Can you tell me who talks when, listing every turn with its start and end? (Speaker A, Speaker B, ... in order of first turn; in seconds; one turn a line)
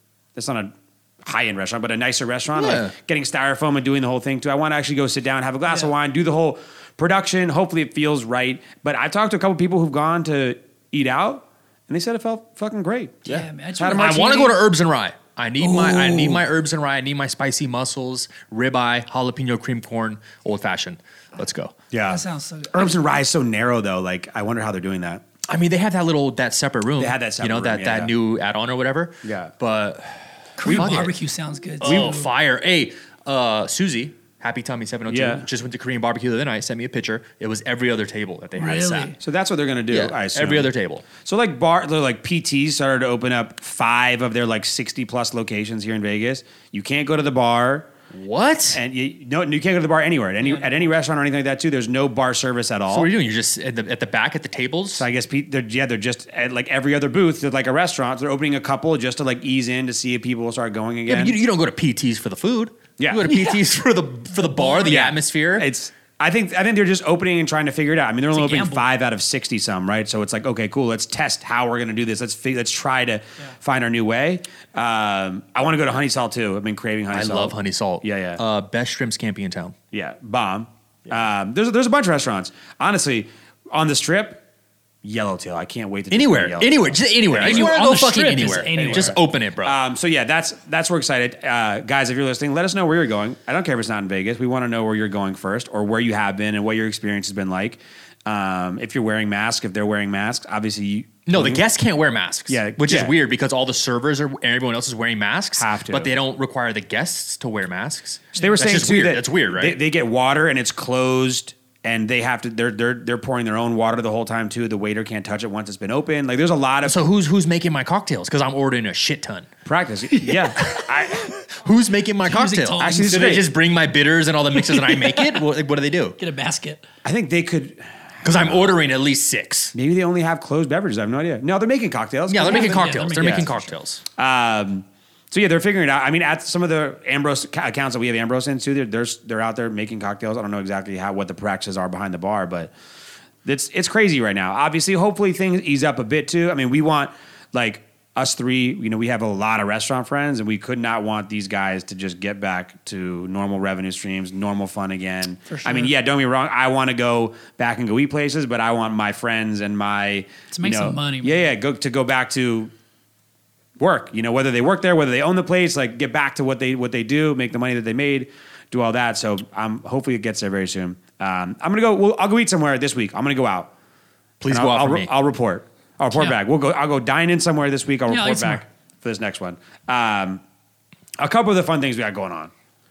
Speaker A: 0.3-14.3
Speaker B: 2.5-2.9
Speaker B: 13.3-21.7
Speaker C: 13.3-14.6
Speaker C: 15.7-16.4
Speaker A: 21.9-22.2
Speaker C: 22.1-22.9
Speaker A: 22.7-25.2
Speaker B: 25.5-31.1
Speaker A: 27.0-28.1
Speaker A: 29.2-29.5
Speaker C: 30.6-32.3
Speaker A: 30.6-31.1
Speaker B: 31.8-39.1
Speaker A: 31.8-32.2
Speaker A: 35.1-35.4
Speaker C: 38.6-39.2
Speaker A: 39.2-47.9
Speaker B: 39.9-41.0
Speaker B: 48.1-48.8
Speaker A: 48.7-53.1
Speaker C: 50.4-50.7
Speaker B: 52.9-55.0
Speaker A: 55.0-61.4
Speaker B: 61.1-65.7
Speaker A: 63.0-63.3
Speaker C: 63.3-63.6
Speaker C: 64.6-64.9
Speaker A: 64.8-78.4
Speaker C: 68.3-68.8
Speaker B: 77.1-79.7
Speaker A: 79.9-84.4
Speaker A: 85.0-87.7
Speaker B: 86.1-89.8
Speaker C: 87.4-89.2
Speaker A: 88.7-101.6
Speaker B: 101.3-109.8
Speaker A: 102.5-103.1
Speaker A: 105.5-106.1
Speaker A: 108.3-117.0
Speaker C: 108.3-108.6
Speaker B: 116.8-119.5
Speaker A: 119.6-121.3
Speaker B: 120.6-126.2
Speaker C: 122.2-123.1
Speaker A: 122.8-123.5
Speaker C: 124.6-125.5
Speaker C: 126.2-126.8
Speaker A: 127.0-128.7
Speaker B: 128.2-129.7
Speaker A: 129.7-133.5
Speaker B: 132.3-134.0
Speaker C: 132.4-133.7
Speaker A: 134.2-142.7
Speaker A: 143.4-162.7
Speaker C: 155.5-155.9
Speaker C: 160.5-161.5
Speaker A: 163.8-173.7
Speaker B: 174.4-175.1
Speaker A: 174.5-180.4
Speaker C: 178.1-178.6
Speaker A: 181.2-182.5